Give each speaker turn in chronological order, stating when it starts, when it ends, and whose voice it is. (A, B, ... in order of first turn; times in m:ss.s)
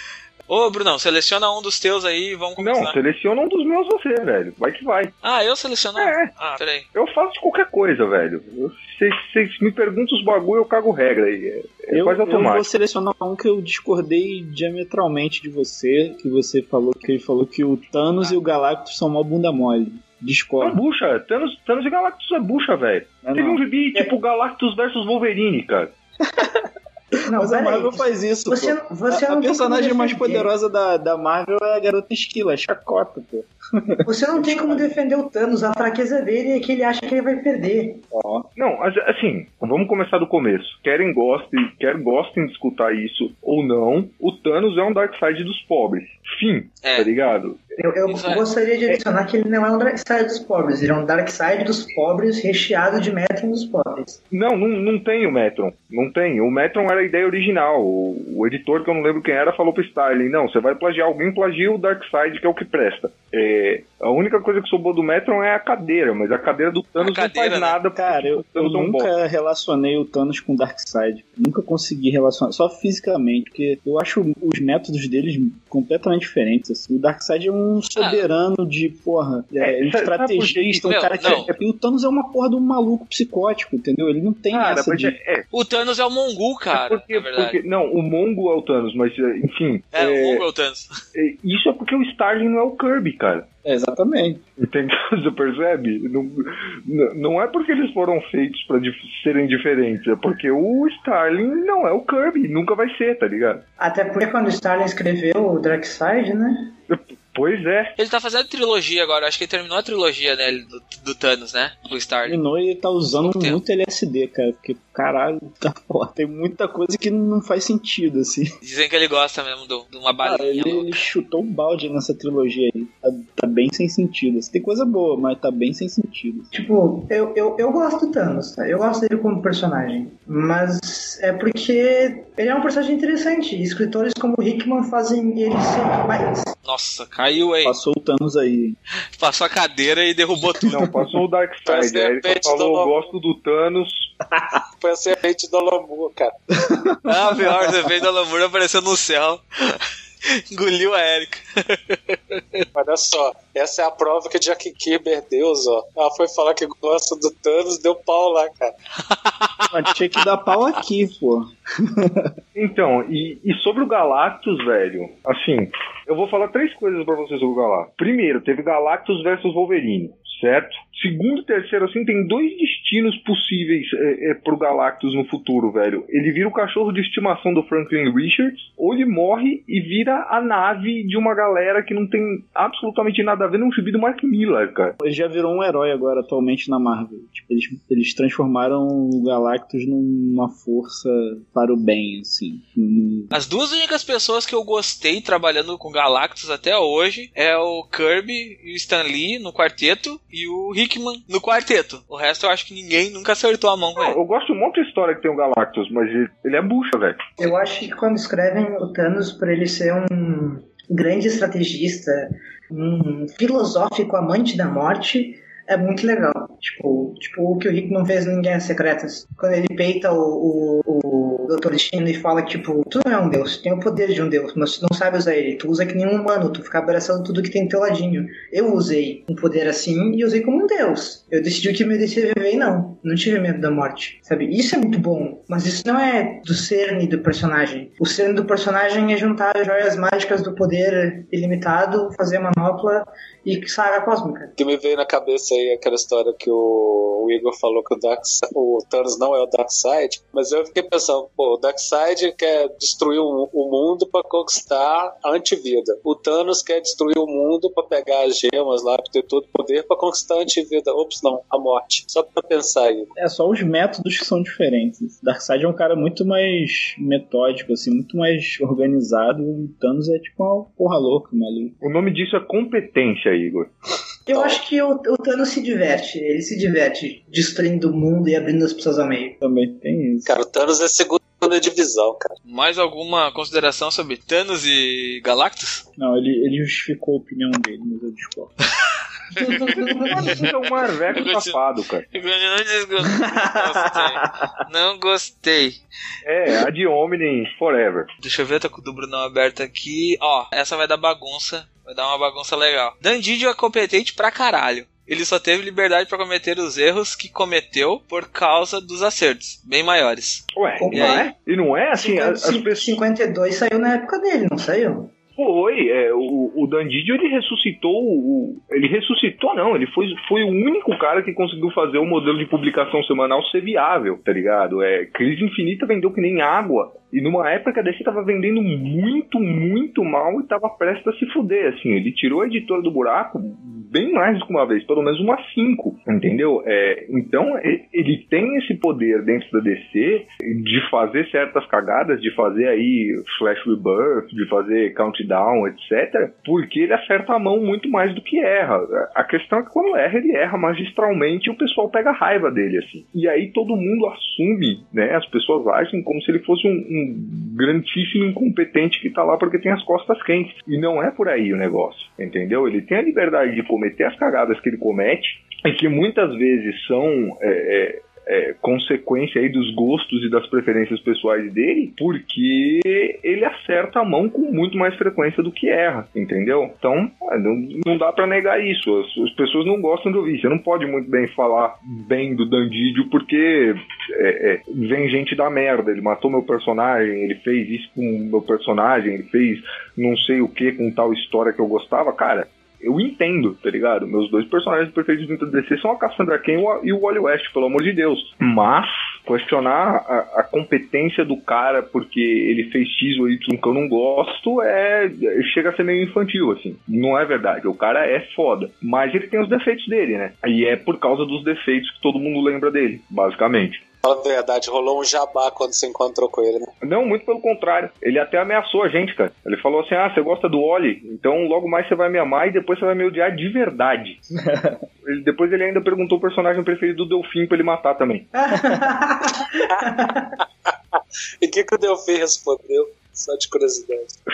0:00.5-0:03.0 A
0:02.6-0:05.1 B
0:05.2-0:06.9 A
0:06.0-0:06.3 B
0:06.9-0:12.7 B
0:11.9-0:20.8 C
0:20.6-0:25.9 B
0:23.2-0:24.1 C
0:26.2-0:26.7 C
0:27.3-0:30.5 D
0:27.3-0:35.0 C
0:34.0-0:38.0 D
0:38.1-0:38.5 C
0:38.6-0:47.7 B
0:46.8-0:47.1 A
0:47.8-0:54.2 D
0:48.1-0:48.4 A
0:54.3-1:09.1 B
1:07.0-1:07.8 A
1:08.0-1:25.2 C
1:18.0-1:18.2 A
1:19.6-1:21.4 B
1:20.8-1:21.5 A
1:24.5-1:25.4 B
1:25.5-1:27.6 A
1:26.7-1:30.4 B
1:29.9-1:30.9 A
1:31.1-1:33.5 B
1:33.6-1:34.4 C
1:34.6-1:43.6 B
1:43.8-1:46.7 D
1:46.9-1:47.9 B
1:48.0-1:52.4 A
1:52.2-1:58.5 C
1:53.2-1:53.6 A
1:58.6-2:01.0 A
2:00.2-2:06.5 C
2:06.5-2:16.5 D
2:16.6-2:17.8 A
2:17.6-2:18.8 C
2:19.2-2:20.8 A
2:20.6-2:24.1 B
2:20.7-2:21.1 C
2:21.7-2:23.0 E
2:24.8-2:26.4 E
2:26.6-2:27.8 C
2:27.0-2:32.6 A
2:32.7-2:38.7 E
2:39.1-2:39.7 A
2:39.7-2:42.3 C
2:42.5-3:05.0 B
3:05.0-3:13.3 C
3:13.3-3:24.2 A
3:24.0-3:27.2 B
3:27.4-4:04.5 D
4:04.6-4:23.1 E
4:23.2-4:31.7 C
4:31.8-4:33.7 B
4:34.3-4:39.4 D
4:39.4-4:40.3 C
4:40.2-4:42.4 E
4:42.4-4:45.8 A
4:46.0-4:48.5 C
4:49.3-4:50.4 A
4:49.4-4:50.3 D
4:50.2-4:52.0 B
4:51.1-4:51.5 A
4:52.1-4:55.8 A
4:53.0-4:54.5 C
4:56.2-4:58.1 B
4:58.2-5:11.2 A
5:10.5-5:12.8 B
5:10.8-5:11.3 D
5:11.9-5:15.1 D
5:15.4-6:53.8 B
6:54.0-6:56.7 E
6:56.8-7:04.2 B
7:04.4-7:04.8 C
7:05.0-7:08.3 B
7:08.3-7:10.3 D
7:09.6-7:09.9 E
7:10.9-7:14.1 E